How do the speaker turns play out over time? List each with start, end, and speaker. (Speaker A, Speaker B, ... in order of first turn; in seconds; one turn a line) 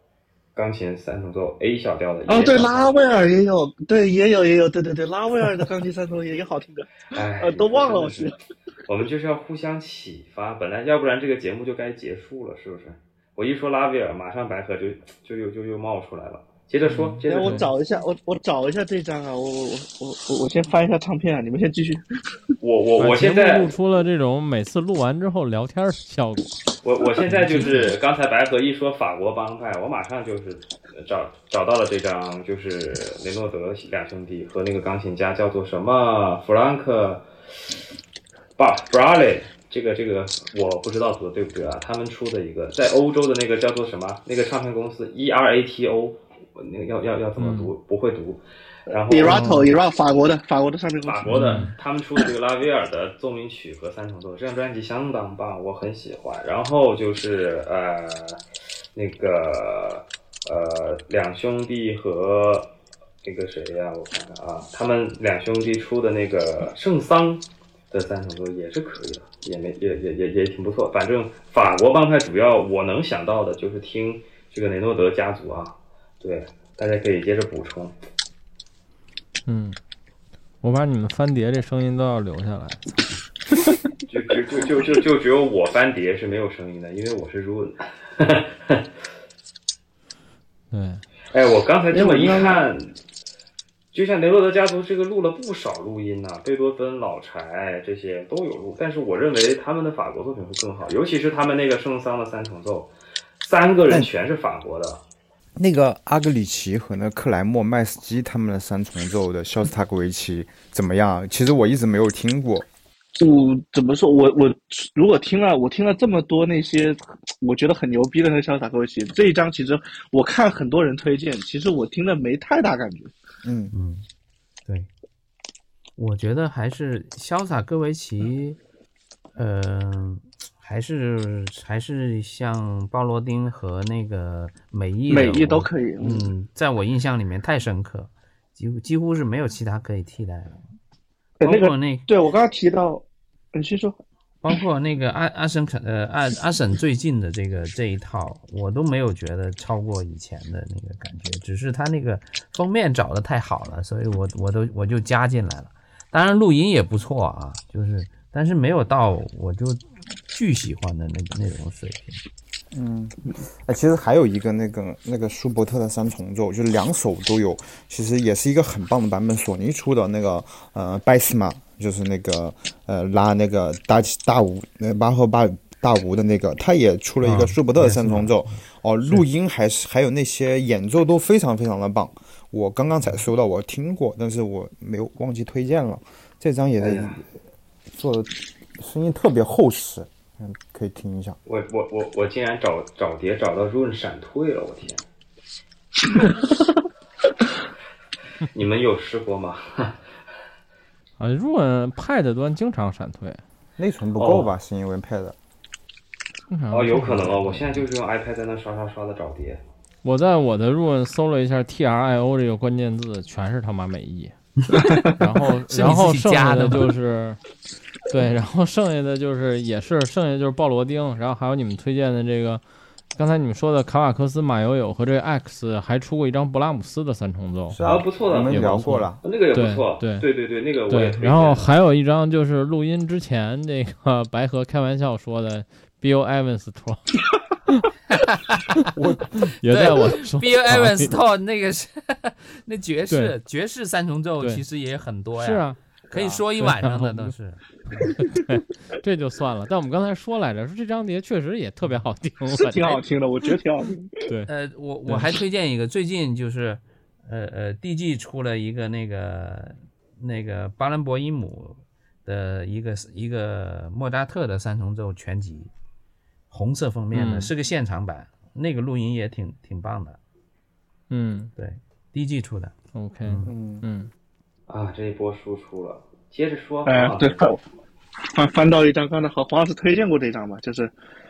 Speaker A: 0.5-2.9
Speaker B: 2.3-8.3
Speaker A: 7.1-8.3
Speaker A: 8.8-17.7
Speaker C: 16.9-17.2
Speaker B: 17.2-22.0
Speaker D: 17.4-17.7
Speaker A: 22.6-23.7
Speaker D: 23.0-26.6
Speaker A: 26.8-37.2
Speaker D: 27.4-27.8
Speaker A: 38.6-49.7
Speaker D: 47.4-47.7
Speaker B: 49.1-51.5
Speaker C: 49.3-49.6
Speaker A: 51.0-58.4
Speaker D: 51.3-51.7
Speaker A: 58.9-62.7
Speaker A: 63.2-77.9
Speaker D: 79.5-79.8
Speaker D: 80.6-83.1
Speaker A: 84.1-88.8
Speaker D: 90.7-91.0
Speaker A: 91.3-92.9
Speaker B: 91.9-92.6
Speaker A: 93.9-105.0
Speaker E: 105.6-112.7
Speaker B: 113.1-123.1
Speaker E: 123.4-123.7
Speaker C: 123.7-124.0
Speaker C: 126.0-128.6
Speaker C: 129.3-140.6
Speaker B: 135.1-136.3
Speaker B: 141.4-144.0
Speaker C: 141.4-142.1
Speaker C: 144.4-162.2
Speaker E: 162.7-187.2
Speaker C: 177.2-178.3
Speaker A: 186.8-187.2
Speaker E: 187.9-191.4
Speaker A: 191.4-195.0
Speaker A: 198.5-200.0
Speaker D: 201.2-203.4
Speaker E: 203.8-205.3
Speaker A: 204.2-204.5
Speaker D: 206.5-207.6
Speaker A: 206.7-209.6
Speaker D: 210.0-214.3
Speaker B: 214.8-215.2
Speaker D: 215.1-217.4
Speaker C: 215.7-216.9
Speaker D: 218.1-222.6
Speaker D: 223.1-227.8
Speaker E: 227.7-229.2
Speaker A: 227.8-231.7
Speaker D: 228.5-230.3
Speaker D: 230.9-237.0
Speaker E: 238.9-239.4
Speaker D: 239.6-241.1
Speaker C: 239.6-248.1
Speaker D: 245.3-245.8
Speaker E: 246.1-246.4
Speaker D: 246.6-247.3
Speaker D: 248.2-253.0
Speaker B: 252.5-254.1
Speaker C: 254.5-265.7
Speaker D: 255.1-255.3
Speaker C: 266.5-270.2
Speaker D: 267.1-267.5
Speaker D: 271.1-271.5
Speaker C: 271.6-273.5
Speaker D: 272.9-274.1
Speaker E: 273.4-273.8
Speaker A: 274.7-277.4
Speaker B: 276.9-277.6
Speaker B: 278.3-280.9